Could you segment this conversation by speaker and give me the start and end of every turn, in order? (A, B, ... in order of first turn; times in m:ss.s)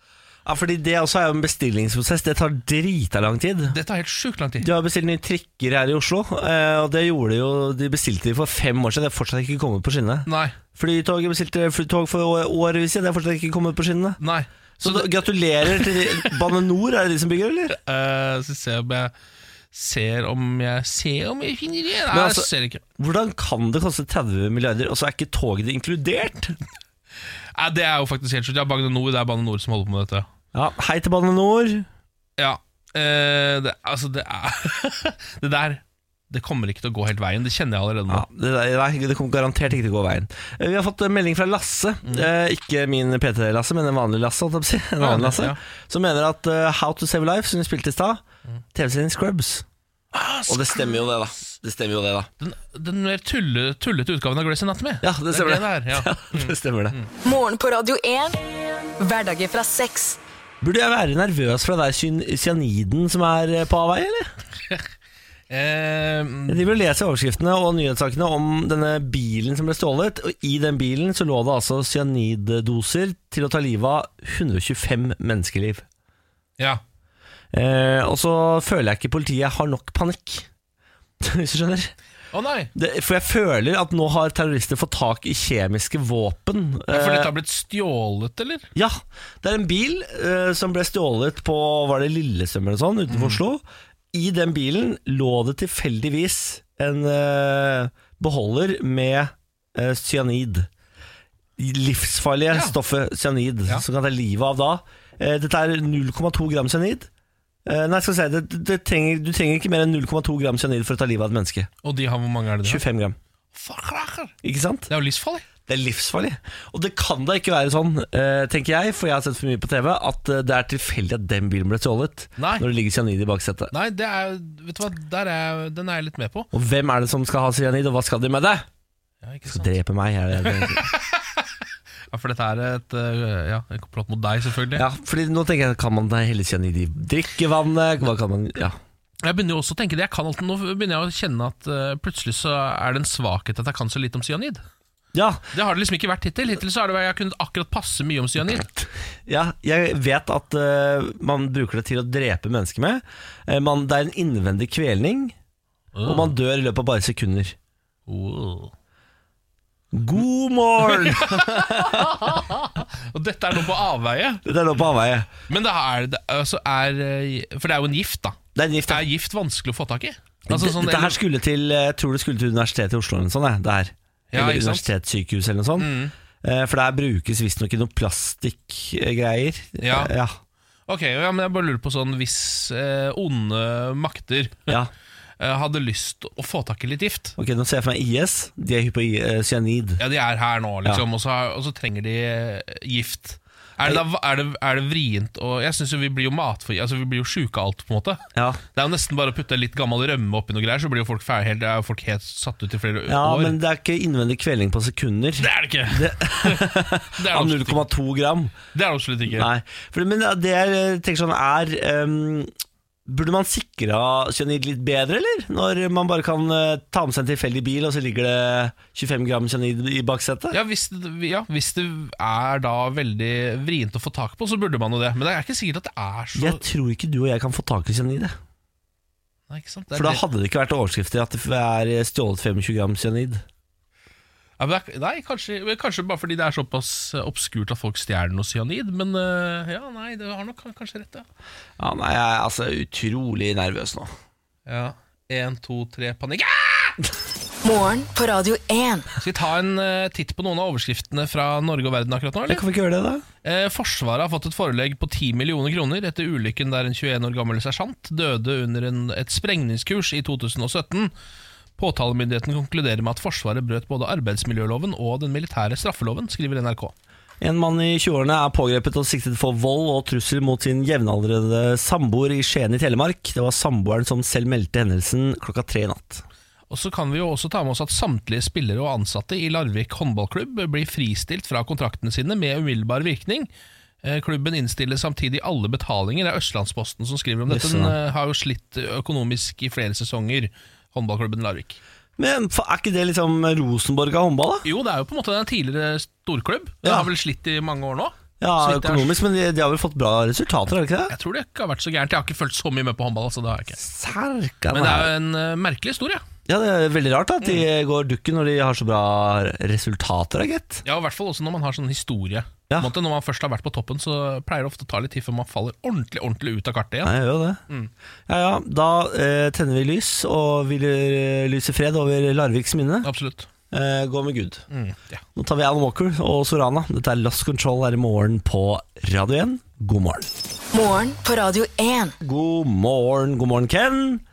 0:00.4-0:03.8 A
0:03.7-0:04.7 B
0:04.6-0:14.2 A
0:10.2-0:10.6 B
0:14.2-0:16.3 B
0:14.8-0:17.8 A
0:17.7-0:19.1 B
0:19.7-0:22.8 B
0:22.1-0:26.6 A
0:27.5-0:30.2 B
0:30.5-0:31.9 A
0:32.4-0:38.2 B
0:38.1-0:48.2 A
0:45.0-0:45.6 B
0:48.7-0:49.6 A
0:50.1-0:51.1 B
0:50.5-0:52.3 A
0:52.4-0:57.1 B
0:55.0-0:57.0 A
0:57.2-0:58.4 C
0:59.0-1:00.2 C
1:00.6-1:04.3 A
1:05.5-1:06.6 B
1:06.5-1:15.8 A
1:17.5-1:20.4 A
1:21.2-1:21.9 A
1:22.3-1:22.7 B
1:22.7-1:27.3 A
1:26.9-1:28.7 B
1:28.7-1:40.7 A
1:33.1-1:33.4 B
1:41.6-1:47.1 A
1:47.6-1:51.7 A
1:51.8-1:52.8 B
1:52.6-1:53.2 A
1:53.5-1:54.3 B
1:54.4-1:54.9 A
1:54.9-1:55.4 B
1:55.7-2:03.7 A
2:02.4-2:02.6 B
2:03.7-2:06.5 B
2:06.5-2:08.6 A
2:09.2-2:09.8 B
2:09.5-2:10.9 A
2:10.4-2:11.4 B
2:12.1-2:14.8 B
2:14.8-2:18.8 A
2:19.2-2:24.6 B
2:25.1-2:25.4 A
2:25.5-2:28.7 B
2:29.3-2:35.3 A
2:35.9-2:36.3 B
2:36.0-2:37.5 A
2:38.1-2:38.7 B
2:39.9-2:42.2 A
2:40.8-2:44.4 B
2:44.4-2:45.3 A
2:45.5-2:48.4 B
2:48.6-2:49.0 A
2:48.9-2:51.2 B
2:50.5-3:00.4 A
2:54.3-2:54.9 B
2:55.8-2:56.1 B
2:59.8-3:00.1 B
3:00.9-3:04.7 B
3:05.4-3:07.4 B
3:07.4-3:10.0 A
3:10.0-3:23.6 B
3:18.3-3:18.6 A
3:23.1-3:28.5 A
3:25.4-3:27.8 B
3:28.7-3:29.5 B
3:29.3-3:32.5 A
3:33.1-3:40.6 A
3:40.5-3:46.6 B
3:46.4-3:48.3 A
3:49.5-3:50.2 B
3:49.9-3:53.4 A
3:54.6-4:01.2 B
4:01.8-4:04.1 A
4:04.7-4:07.0 B
4:07.6-4:09.1 C
4:09.2-4:12.6 B
4:12.5-4:13.2 A
4:13.4-4:21.1 B
4:21.8-4:26.9 B
4:27.4-4:36.2 A
4:36.7-4:43.5 B
4:44.0-4:51.8 B
4:47.5-4:47.9 A
4:52.2-4:54.6 A
4:54.6-4:59.2 B
4:58.4-5:01.1 A
5:01.1-5:03.8 B
5:03.8-5:05.1 A
5:04.7-5:06.2 B
5:06.5-5:10.8 A
5:10.8-5:17.1 B
5:17.0-5:17.6 A
5:18.3-5:23.1 A
5:23.0-5:23.5 B
5:23.7-5:24.6 A
5:24.7-5:25.2 B
5:25.4-5:30.3 A
5:30.7-5:32.1 C
5:32.2-5:34.2 A